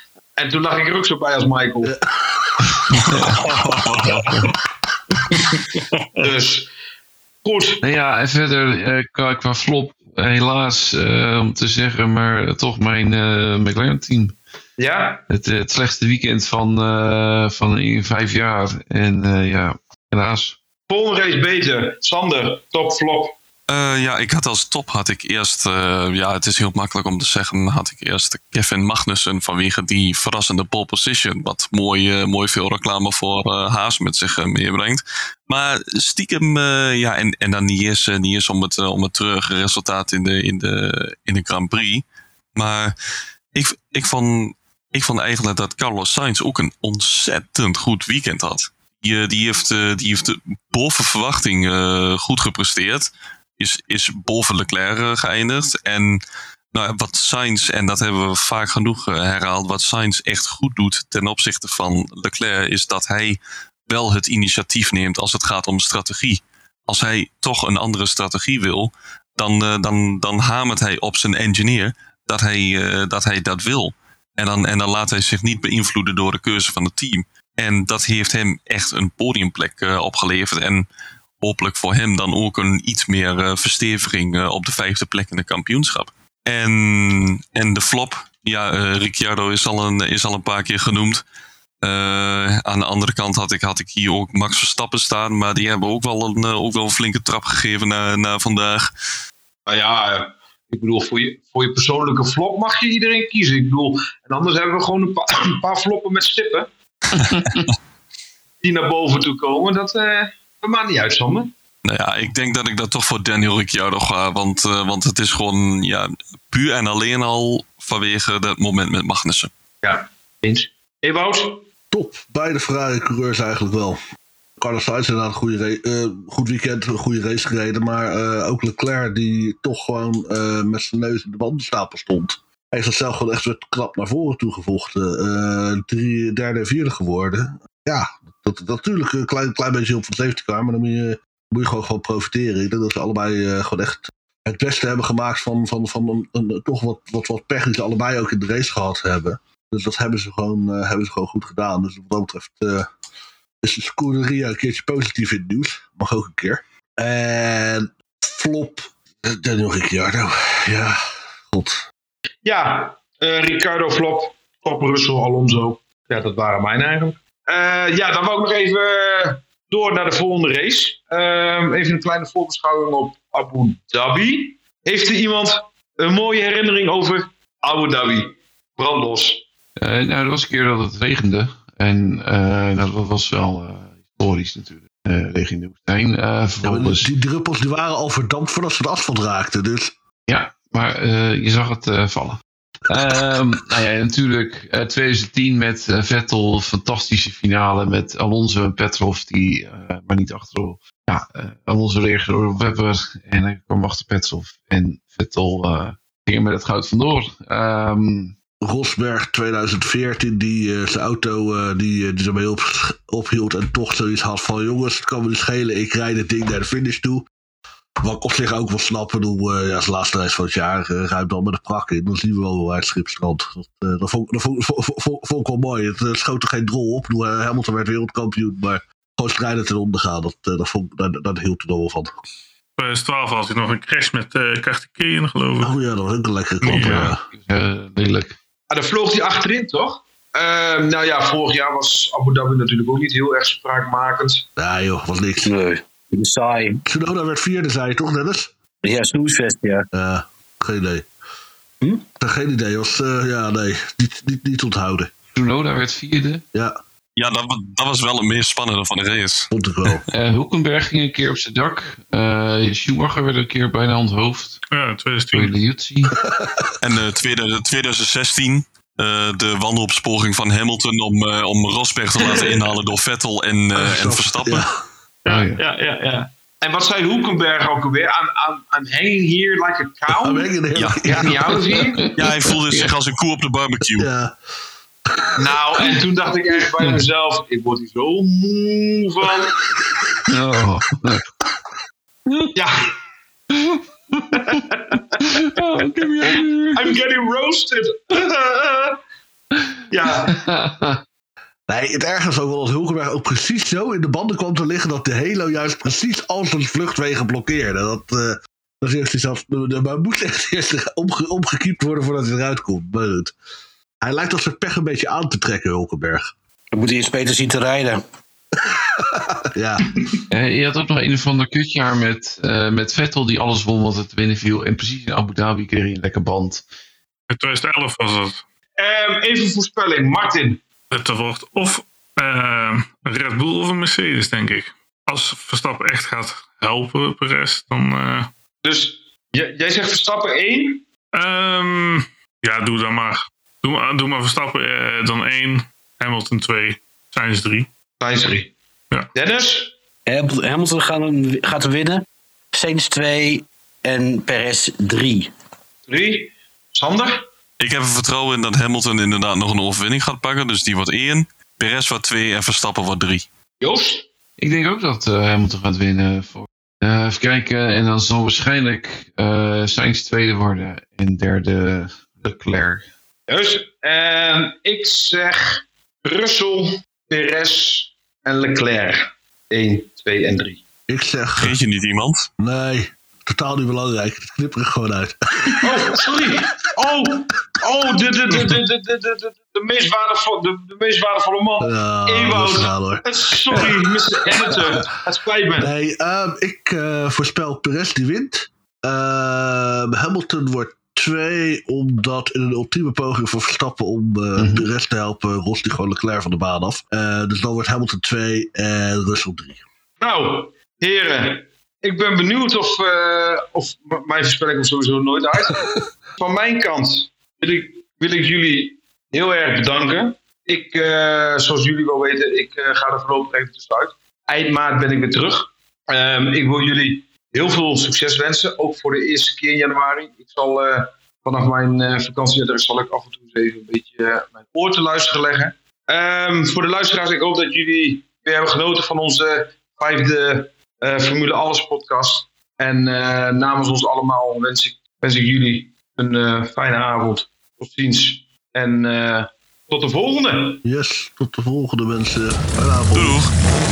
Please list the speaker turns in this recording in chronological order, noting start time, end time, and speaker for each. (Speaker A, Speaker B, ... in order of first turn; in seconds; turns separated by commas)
Speaker A: 0.4-1.9, Speaker B: 1.8-3.3, Speaker C: 3.0-4.3, Speaker D: 4.2-4.5, Speaker B: 5.2-5.5, Speaker E: 5.4-6.0, Speaker A: 6.2-6.7, Speaker A: 7.4-7.8, Speaker D: 7.8-14.4, Speaker A: 14.8-15.2, Speaker D: 15.3-20.6, Speaker A: 20.9-23.3, Speaker C: 23.7-42.9, Speaker C: 43.5-56.2, Speaker C: 56.7-80.9, Speaker C: 81.4-91.2, Speaker C: 91.8-98.9, Speaker A: 99.7-106.7, Speaker D: 107.2-107.7, Speaker A: 108.6-111.5, Speaker C: 111.8-119.5, Speaker A: 119.8-121.6, Speaker B: 121.9-124.0, Speaker B: 124.6-152.9, Speaker B: 153.6-161.0, Speaker B: 161.5-161.8, Speaker A: 162.4-179.4, Speaker D: 179.8-187.1, Speaker B: 186.6-189.9, Speaker D: 190.3-208.3, Speaker B: 193.0-193.3, Speaker B: 208.6-217.3, Speaker B: 218.0-232.1, Speaker E: 232.8-235.7, Speaker B: 235.6-237.2, Speaker E: 236.6-237.1, Speaker D: 236.7-238.4, Speaker A: 238.7-244.4, Speaker B: 244.6-245.5, Speaker F: 245.4-246.8, Speaker B: 246.9-248.5, Speaker F: 248.8-249.8, Speaker B: 249.9-251.1, Speaker B: 252.2-255.1, Speaker D: 255.3-256.4, Speaker C: 257.2-259.5, Speaker B: 259.5-260.0, Speaker D: 260.1-264.6, Speaker E: 264.7-265.5, Speaker D: 265.3-266.1, Speaker B: 266.1-266.7, Speaker C: 266.8-274.6, Speaker A: 272.2-272.5, Speaker B: 273.8-274.8, Speaker D: 275.2-275.6, Speaker A: 275.2-280.5, Speaker B: 280.1-281.5, Speaker C: 280.7-281.1, Speaker A: 281.1-282.1, Speaker D: 281.9-282.2, Speaker C: 282.2-284.1, Speaker B: 284.0-284.3, Speaker A: 285.4-289.6, Speaker D: 290.3-291.2, Speaker A: 292.5-292.9, Speaker D: 293.5-293.8, Speaker A: 294.3-295.4, Speaker D: 295.2-296.9, Speaker A: 296.2-298.9, Speaker A: 299.9-300.4, Speaker D: 300.3-301.0, Speaker B: 301.7-313.3, Speaker B: 314.0-316.3, Speaker F: 316.7-318.0, Speaker B: 318.6-319.9, Speaker D: 320.3-326.6, Speaker E: 327.3-328.4, Speaker A: 328.8-330.6, Speaker E: 330.9-338.3, Speaker A: 338.6-340.8, Speaker E: 341.1-347.7, Speaker A: 348.0-348.5, Speaker A: 349.1-349.7, Speaker F: 350.1-355.3, Speaker A: 355.9-357.1, Speaker C: 357.6-363.2, Speaker A: 363.6-364.1, Speaker D: 364.4-372.8, Speaker A: 373.3-380.6, Speaker B: 380.9-381.6, Speaker C: 381.4-382.3, Speaker B: 382.4-386.3, Speaker A: 385.6-395.7, Speaker B: 391.6-394.3, Speaker B: 395.6-409.6, Speaker D: 404.4-404.7, Speaker A: 410.0-415.6, Speaker A: 416.2-450.6, Speaker B: 450.6-453.2, Speaker C: 452.9-453.3